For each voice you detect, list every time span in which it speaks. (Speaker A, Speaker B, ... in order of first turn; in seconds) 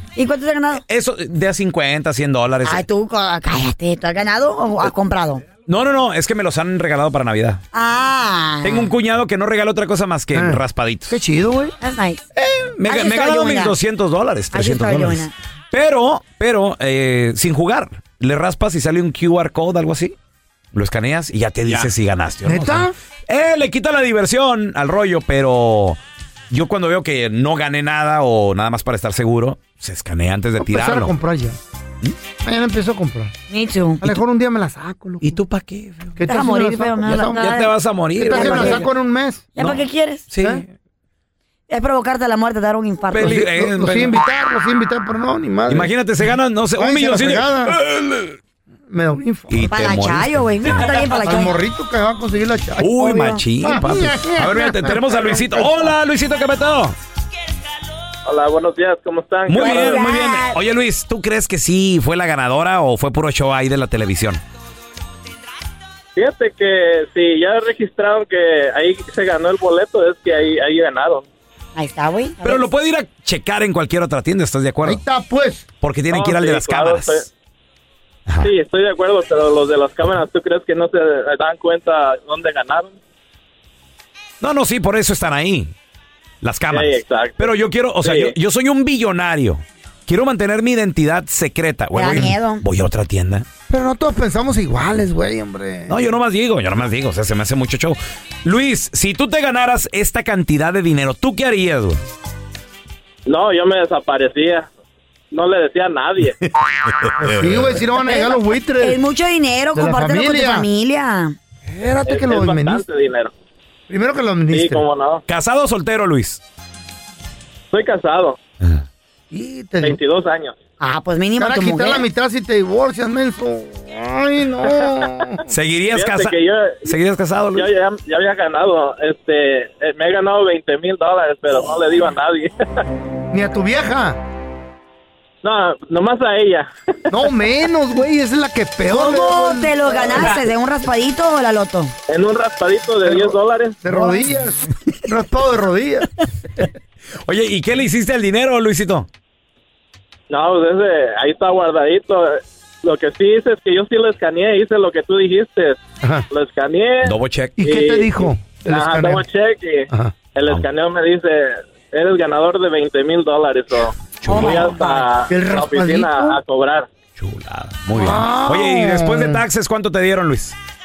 Speaker A: 0.1-0.8, 2.6-5.4, 7.7-8.9, 11.8-12.3, 12.8-13.8, 14.5-15.3, 33.5-34.1, 36.3-37.7, 38.3-38.8, 39.5-40.2, 41.7-43.4, 49.7-51.5, 53.0-53.4, 59.5-60.6, 71.8-72.7, 91.9-92.6, 108.0-111.3, 120.8-122.1, 138.9-141.9, 164.3-165.0
Speaker B: 0.8-2.8, 5.7-7.6, 8.6-11.2, 12.4-20.1, 20.7-26.0, 26.5-31.1, 35.2-36.2, 37.4-38.9, 39.6-40.7, 43.1-44.1, 45.7-48.4, 49.5-51.0, 52.8-56.9, 59.5-64.4, 72.4-75.0, 75.8-77.3, 84.4-85.7, 86.4-93.5, 95.9-102.0, 106.8-107.8, 115.3-116.4, 125.5-127.7, 147.2-149.1, 157.0-157.6, 164.2-164.7, 167.2-170.5
Speaker C: 10.3-11.7, 22.4-22.9, 30.6-31.6, 32.4-33.3, 34.0-35.3, 36.1-37.5, 38.2-39.5, 43.2-45.9, 46.8-47.8, 48.9-49.7, 51.2-52.9, 53.6-55.9, 74.8-75.7, 93.7-96.0, 107.2-109.0, 109.7-110.7, 111.7-112.8, 113.9-114.8, 119.3-120.0, 121.4-125.4, 133.3-134.2, 137.1-140.3, 143.8-146.6, 157.6-159.2, 159.9-160.1, 165.3-166.4, 167.9-169.4
Speaker D: 58.2-60.0, 66.2-71.2, 76.1-77.3, 78.4-83.0, 86.7-87.5, 88.0-88.3, 103.2-104.7, 105.3-106.4, 112.0-113.3, 114.5-115.2, 117.7-118.4, 119.8-120.5, 125.9-126.9, 127.5-132.6, 135.4-136.7, 142.1-143.8, 150.3-155.8, 156.3-166.9